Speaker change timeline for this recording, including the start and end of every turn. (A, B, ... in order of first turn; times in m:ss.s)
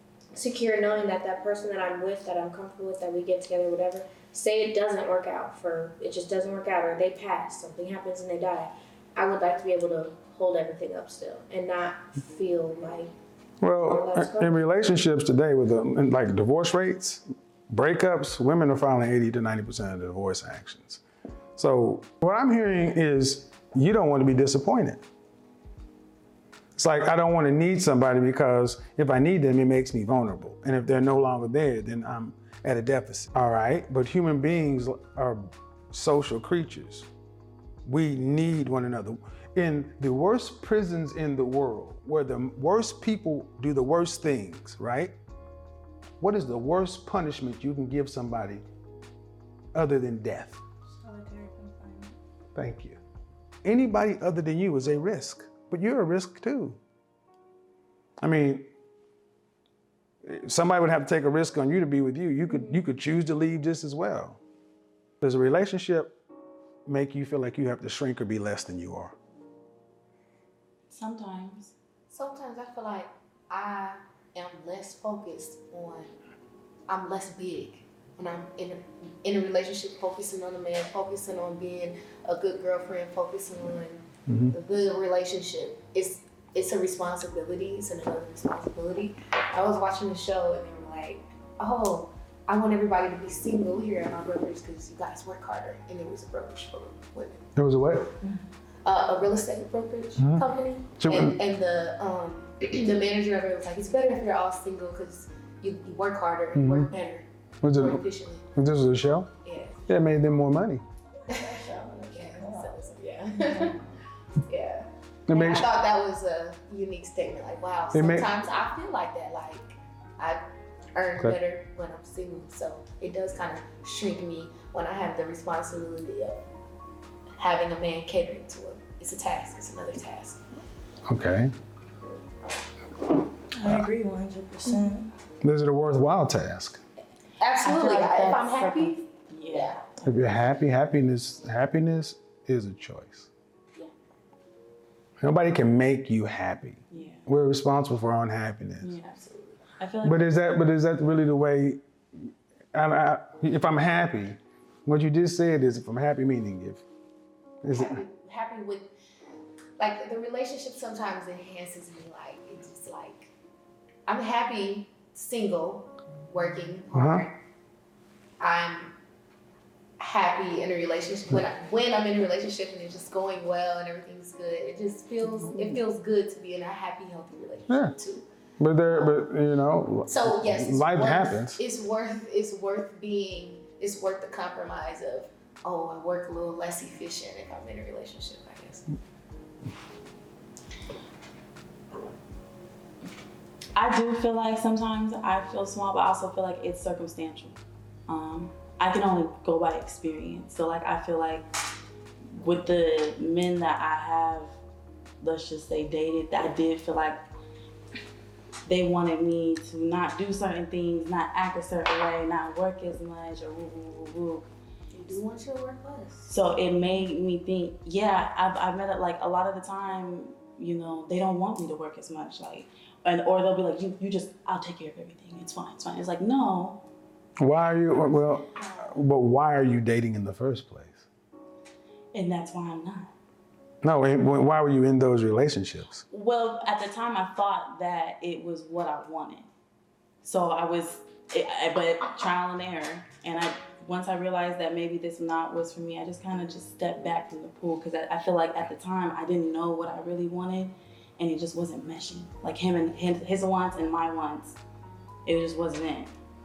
0:00.3-0:13.1 A
0:13.6-0:21.0 B
0:13.8-0:14.6 A
0:21.6-0:25.0 B
0:26.8-0:37.1 B
0:37.8-0:45.2 B
0:46.2-0:48.6 B
0:49.7-0:50.6 B
0:51.0-0:52.1 C
0:52.6-0:53.0 B
0:53.6-0:56.8 B
0:58.2-0:58.7 B
1:00.2-1:04.4 B
1:05.2-1:06.2 B
1:06.9-1:09.2 B
1:10.9-1:11.7 D
1:12.1-1:16.1 E
1:16.9-1:37.5 E
1:24.3-1:24.5 B
1:37.6-1:38.1 B
1:38.8-1:48.5 E
1:40.2-1:40.4 B
1:41.0-1:41.4 B
1:46.6-1:46.9 B
1:47.6-1:48.0 B
1:48.5-1:49.3 B
1:49.4-1:49.9 E
1:49.9-1:50.8 B
1:51.3-1:52.8 C
1:51.3-1:51.6 E
1:52.1-1:53.8 E
1:54.5-2:00.4 E
1:55.3-1:55.7 B
1:57.9-1:58.3 B
2:01.0-2:06.4 E
2:07.4-2:10.4 E
2:11.1-2:11.5 B
2:13.5-2:15.1 C
2:15.4-2:16.8 B
2:17.4-2:19.8 E
2:17.6-2:19.9 D
2:20.0-2:23.3 B
2:25.2-2:29.0 B
2:26.9-2:27.2 D
2:28.8-2:29.2 D
2:29.2-2:29.7 E
2:29.8-2:30.2 D
2:30.0-2:36.8 B
2:37.6-2:38.0 B
2:37.7-2:38.9 E
2:39.8-2:43.3 E
2:44.1-2:47.4 E
2:46.9-2:47.3 B
2:48.4-2:49.0 E
2:50.0-2:58.3 E
2:57.7-2:58.0 B
2:58.6-3:01.6 B
2:58.9-2:59.2 E
3:00.1-3:08.8 E
3:13.8-3:17.6 D
3:18.1-3:21.5 D
3:22.3-3:24.6 D
3:25.2-3:27.2 D
3:28.7-3:34.5 D
3:34.9-3:36.3 E
3:36.3-3:46.8 D
3:47.4-3:51.1 B
3:48.0-3:49.0 E
3:52.1-3:53.1 D
3:53.8-3:56.0 B
3:56.1-3:59.5 D
4:00.2-4:14.6 D
4:15.2-4:16.1 D